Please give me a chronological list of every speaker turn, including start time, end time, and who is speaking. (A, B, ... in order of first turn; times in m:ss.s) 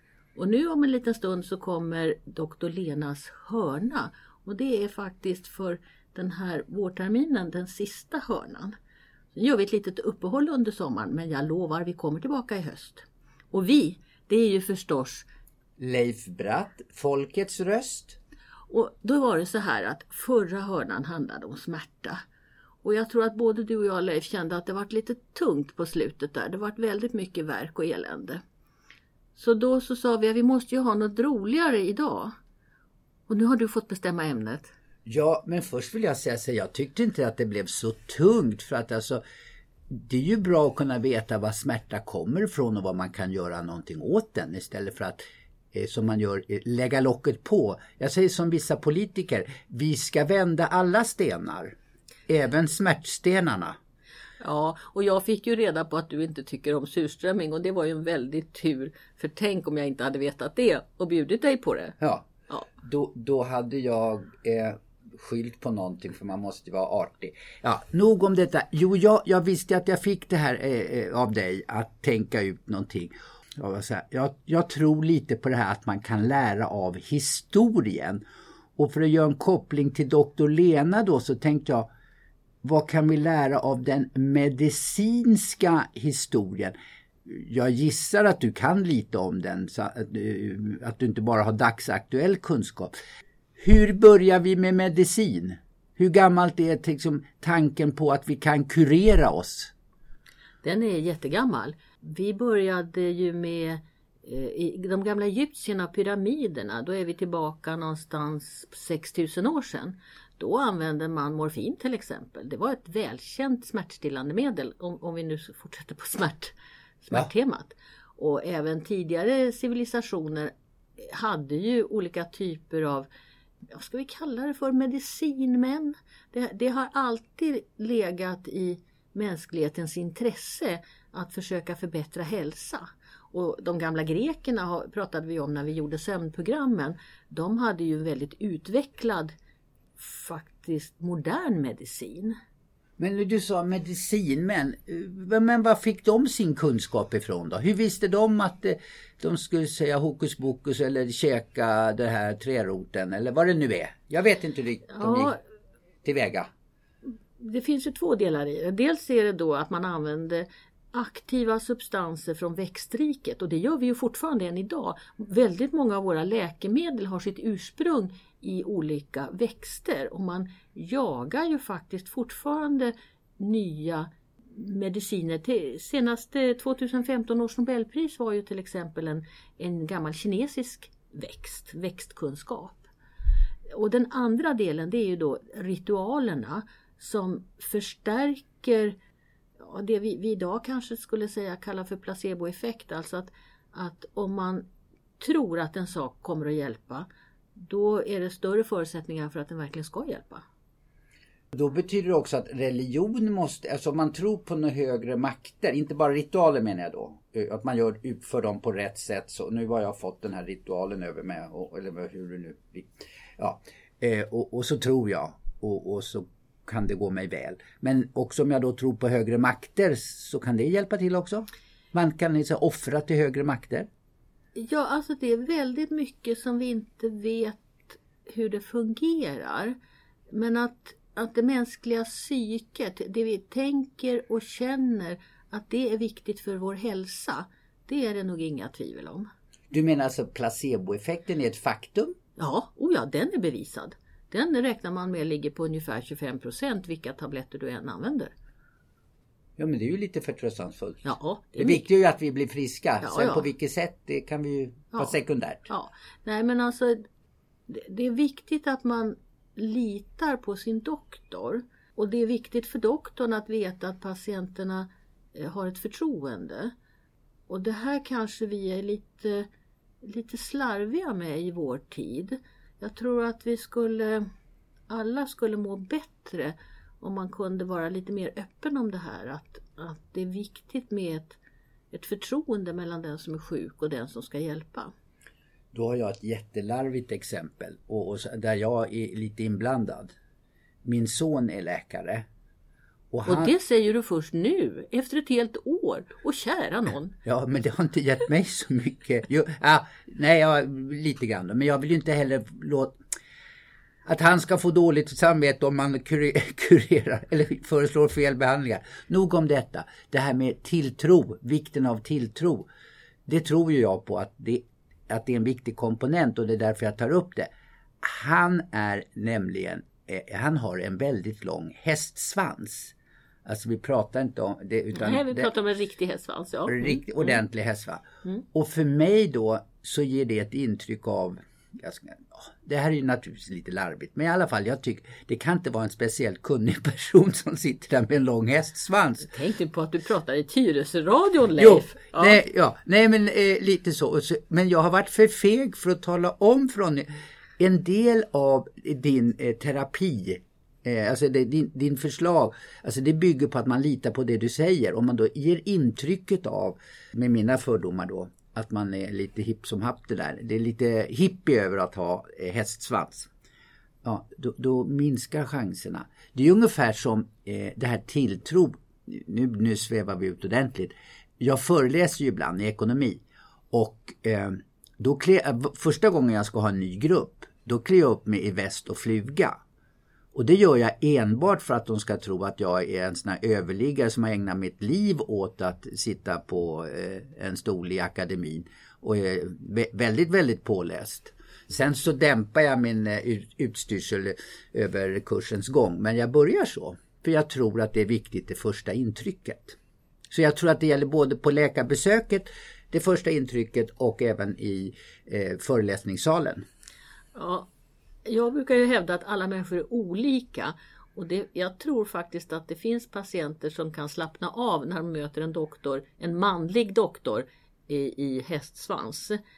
0:00.4-0:08.7 A
0:09.3-0:15.3 A
0:15.8-0:18.2 B
0:18.7-0:22.2 A
0:22.8-0:28.4 A
0:29.4-0:32.3 A
0:33.3-0:34.7 A
0:35.0-0:39.2 B
0:39.9-0:45.2 B
0:45.7-0:51.8 B
0:52.3-0:53.8 B
0:54.4-1:02.0 A
1:02.0-1:18.2 B
1:18.8-1:21.9 B
1:22.6-1:26.7 B
1:27.2-1:32.9 B
1:33.6-1:39.7 B
1:40.6-2:03.1 A
2:03.7-2:19.3 A
2:20.0-2:22.3 A
2:23.0-2:35.4 B
2:34.9-2:35.4 A
2:36.0-2:36.5 B
2:37.4-3:02.9 A
3:03.7-3:09.0 A
3:09.6-3:14.7 A
3:15.2-3:20.4 A
3:21.5-3:43.9 B
3:44.6-3:49.8 A
3:50.3-3:59.3 A
3:59.7-4:02.2 B
4:02.4-4:08.3 A
4:09.6-4:15.7 B
4:11.0-4:11.8 A
4:13.0-4:13.5 A
4:15.7-4:17.0 A
4:17.7-4:26.7 A
4:27.5-4:29.5 A
4:30.0-4:34.3 A
4:34.9-4:41.4 A
4:41.9-4:44.9 A
4:45.7-4:50.1 B
4:50.8-4:52.2 B
4:53.1-4:53.5 B
4:53.2-4:57.2 A
4:57.2-5:03.0 B
5:04.0-5:12.7 B
5:13.3-5:17.5 B
5:18.0-5:25.5 B
5:24.9-5:27.4 A
5:26.7-5:39.3 B
5:39.2-5:42.4 A
5:41.6-6:03.3 B
6:04.0-6:19.6 B
6:20.3-6:39.8 B
6:40.3-6:46.6 B
6:47.3-6:47.7 A
6:48.2-6:59.4 A